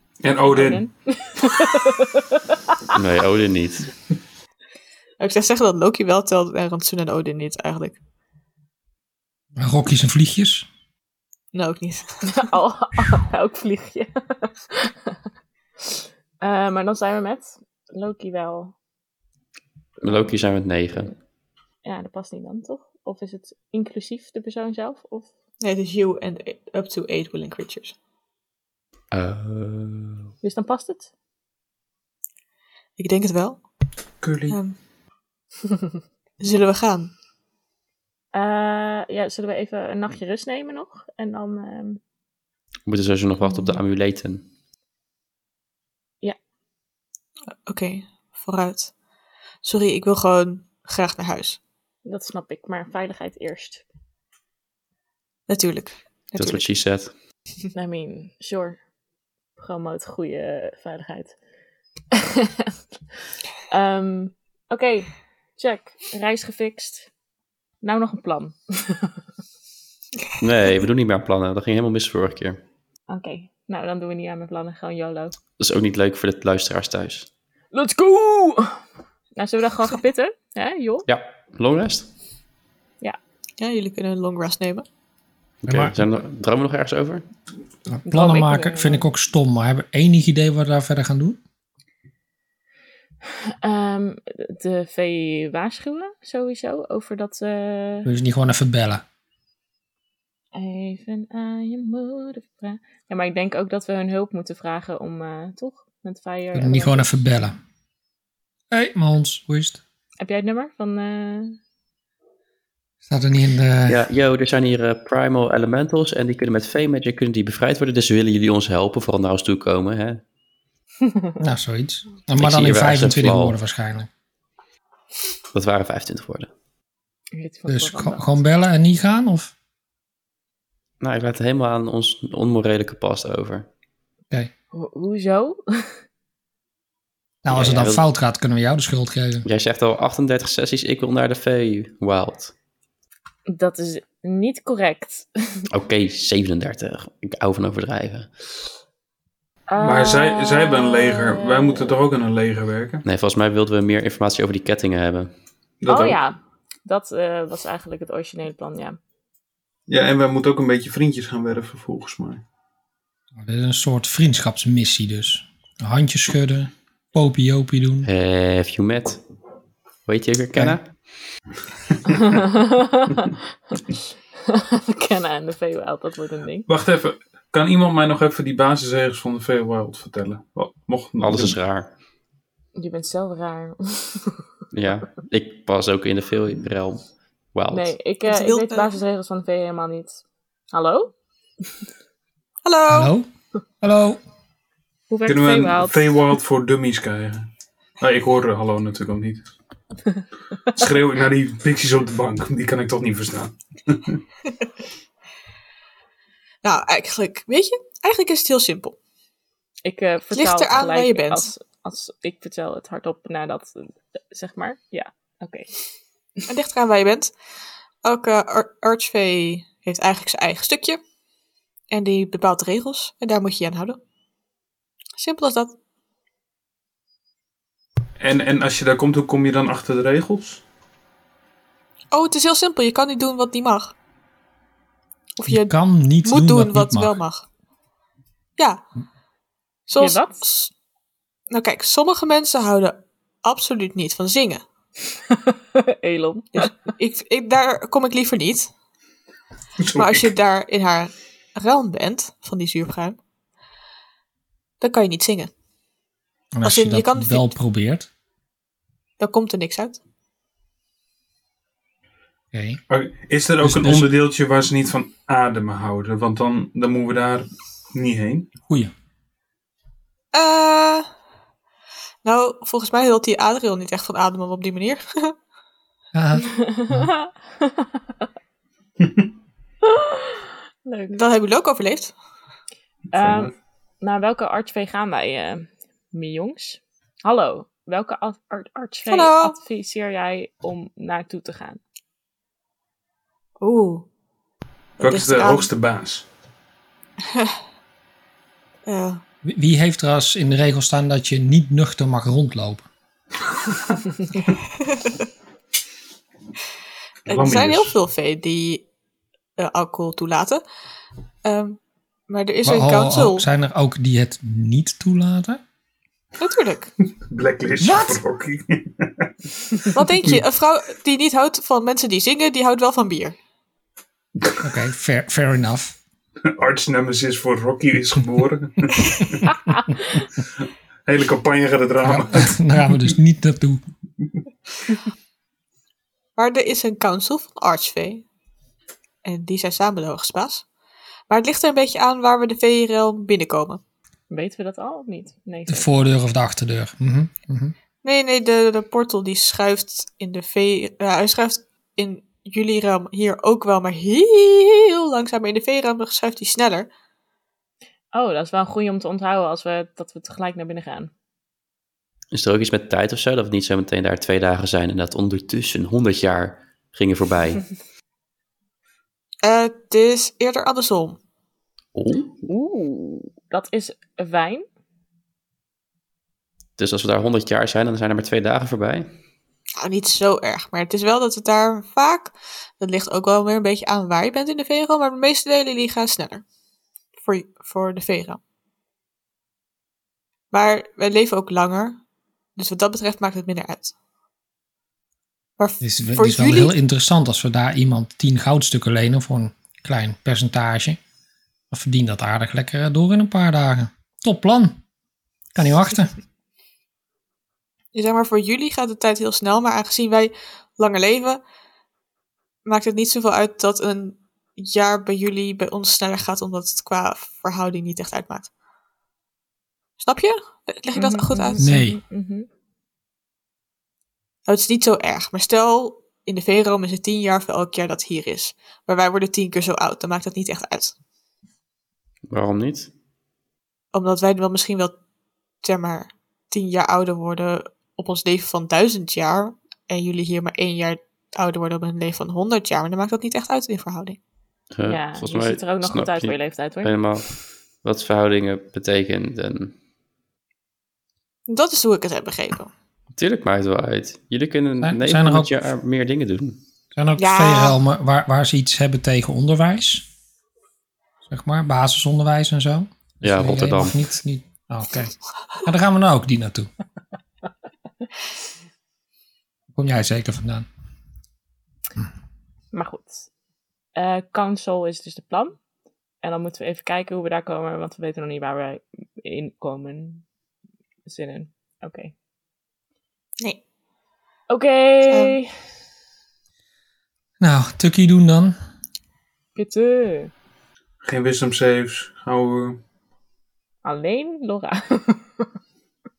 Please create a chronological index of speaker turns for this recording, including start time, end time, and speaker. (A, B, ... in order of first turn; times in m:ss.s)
0:00.2-0:00.9 A
0:00.5-0:02.5 B
0:02.9-0:03.9 C
0:05.2-0:08.0 D
0:09.6-0:10.7 E
0:11.5-0:12.3 D
0:12.2-0:15.2 B
0:15.9-0:18.8 B
0:20.0-0:21.1 C
0:21.8-0:25.3 B
0:25.6-0:28.0 D
0:29.1-0:30.3 C
0:30.4-0:31.1 B
0:33.0-0:33.7 D
0:34.2-0:34.6 A
0:34.5-0:34.8 D
0:36.4-0:37.1 D
0:38.3-0:42.0 B
0:42.9-0:44.5 C
0:43.4-0:43.8 B
0:47.7-0:48.9 D
0:49.6-0:51.6 D
0:52.0-0:53.8 B
0:55.5-0:56.6 D
0:56.4-0:57.1 C
0:57.7-0:58.8 B
0:59.6-1:01.4 B
1:02.1-1:02.8 B
1:03.7-1:07.1 B
1:07.8-1:09.2 B
1:10.4-1:12.6 C
1:13.1-1:15.4 B
1:15.6-1:17.3 C
1:17.7-1:18.8 B
1:19.4-1:21.1 B
1:21.1-1:22.1 C
1:23.6-1:24.8 D
1:25.6-1:27.2 C
1:25.7-1:26.0 E
1:27.9-1:31.4 E
1:28.1-1:29.0 B
1:33.6-1:38.1 B
1:38.0-1:39.0 E
1:40.5-1:47.1 B
1:46.5-1:47.6 E
1:48.7-1:49.8 E
1:50.2-1:51.6 B
1:53.1-1:54.0 E
1:53.9-2:00.2 C
2:01.4-2:04.1 E
2:02.4-2:03.6 C
2:05.5-2:06.5 C
2:07.3-2:08.4 B
2:07.7-2:09.5 E
2:11.0-2:13.7 C
2:14.7-2:15.9 B
2:17.4-2:19.5 E
2:17.5-2:18.0 C
2:19.4-2:22.5 C
2:23.5-2:25.3 B
2:25.7-2:28.3 C
2:29.7-2:31.9 B
2:29.8-2:33.0 A
2:33.0-2:35.3 C
2:35.8-2:36.2 A
2:35.9-2:39.0 B
2:39.9-2:42.4 A
2:43.4-2:48.1 E
2:48.0-2:49.2 C
2:50.1-2:51.0 C
2:52.1-2:56.7 B
2:56.7-3:01.6 A
3:01.2-3:01.9 C
3:02.8-3:04.4 B
3:04.7-3:08.0 C
3:07.7-3:11.1 B
3:08.3-3:09.0 D
3:12.6-3:13.1 D
3:12.9-3:13.3 E
3:13.8-3:14.2 E
3:15.1-3:16.2 B
3:15.3-3:17.5 A
3:18.0-3:19.5 A
3:20.7-3:24.2 A
3:26.6-3:29.0 D
3:29.8-3:35.7 B
3:30.3-3:31.5 D
3:36.5-3:37.3 D
3:38.0-3:41.0 D
3:41.9-3:44.0 D
3:45.2-3:45.8 D
3:48.2-3:50.6 A
3:52.1-3:54.0 D
3:55.4-3:57.4 D
3:55.5-3:57.2 E
3:58.6-3:58.8 D
3:59.9-4:00.7 D
4:00.0-4:00.4 B
4:01.5-4:04.6 D
4:05.3-4:06.7 B
4:06.5-4:08.7 D
4:09.8-4:10.3 A
4:10.0-4:13.2 D
4:14.8-4:15.5 D
4:16.5-4:18.1 E
4:16.6-4:17.6 D
4:19.2-4:20.0 D
4:22.5-4:22.8 E
4:22.9-4:28.5 A
4:23.6-4:24.1 E
4:30.3-4:31.1 D
4:32.2-4:35.4 D
4:36.1-4:37.1 E
4:36.5-4:37.9 B
4:39.9-4:41.2 B
4:41.1-4:42.2 D
4:43.1-4:43.5 A
4:43.1-4:51.8 B
4:49.1-4:49.6 D
4:53.6-4:54.1 D
4:55.0-4:56.3 A
4:55.0-4:55.7 D
4:58.9-4:59.2 D
4:59.4-5:02.8 E
5:07.3-5:08.0 A
5:07.3-5:08.9 D
5:09.6-5:10.6 D
5:11.4-5:13.5 D
5:12.6-5:15.6 E
5:16.4-5:16.9 D
5:17.2-5:19.9 A
5:17.8-5:18.2 E
5:19.9-5:23.4 D
5:24.4-5:24.7 A
5:24.6-5:26.0 E
5:26.4-5:29.6 A
5:29.7-5:30.2 B
5:31.0-5:33.1 A
5:32.0-5:33.8 E
5:36.4-5:38.3 D
5:39.2-5:40.7 D
5:41.3-5:43.8 D
5:44.3-5:46.1 B
5:45.7-5:47.7 E
5:48.0-5:56.9 D
5:58.1-6:01.1 B
6:02.3-6:07.7 C
6:09.4-6:11.2 D
6:11.9-6:12.5 C
6:12.5-6:14.6 B
6:16.8-6:19.1 C
6:19.8-6:26.4 D
6:27.2-6:28.4 D
6:30.5-6:32.0 D
6:32.6-6:34.0 D
6:35.6-6:36.7 D
6:35.8-6:41.0 E
6:41.7-6:44.8 E
6:45.6-6:46.2 E
6:47.9-6:51.4 D
6:52.6-6:58.5 D
7:00.0-7:01.6 D
7:01.0-7:02.5 B
7:01.6-7:02.0 E
7:04.5-7:11.0 D
7:12.3-7:12.9 C
7:13.9-7:15.0 D
7:15.6-7:24.2 D
7:24.7-7:29.8 C
7:24.9-7:26.9 B
7:31.5-7:32.7 D
7:33.2-7:36.6 C
7:34.8-7:35.6 E
7:37.0-7:40.1 E
7:37.2-7:37.8 D
7:41.3-7:46.7 E
7:43.2-7:44.0 C
7:49.7-7:50.7 E
7:52.7-7:53.3 B
7:54.0-7:55.6 B
7:56.2-8:00.2 B
8:01.1-8:02.1 B
8:04.5-8:05.5 B
8:05.1-8:05.4 D
8:07.4-8:08.6 E
8:09.6-8:10.3 B
8:11.0-8:12.8 A
8:13.8-8:15.5 B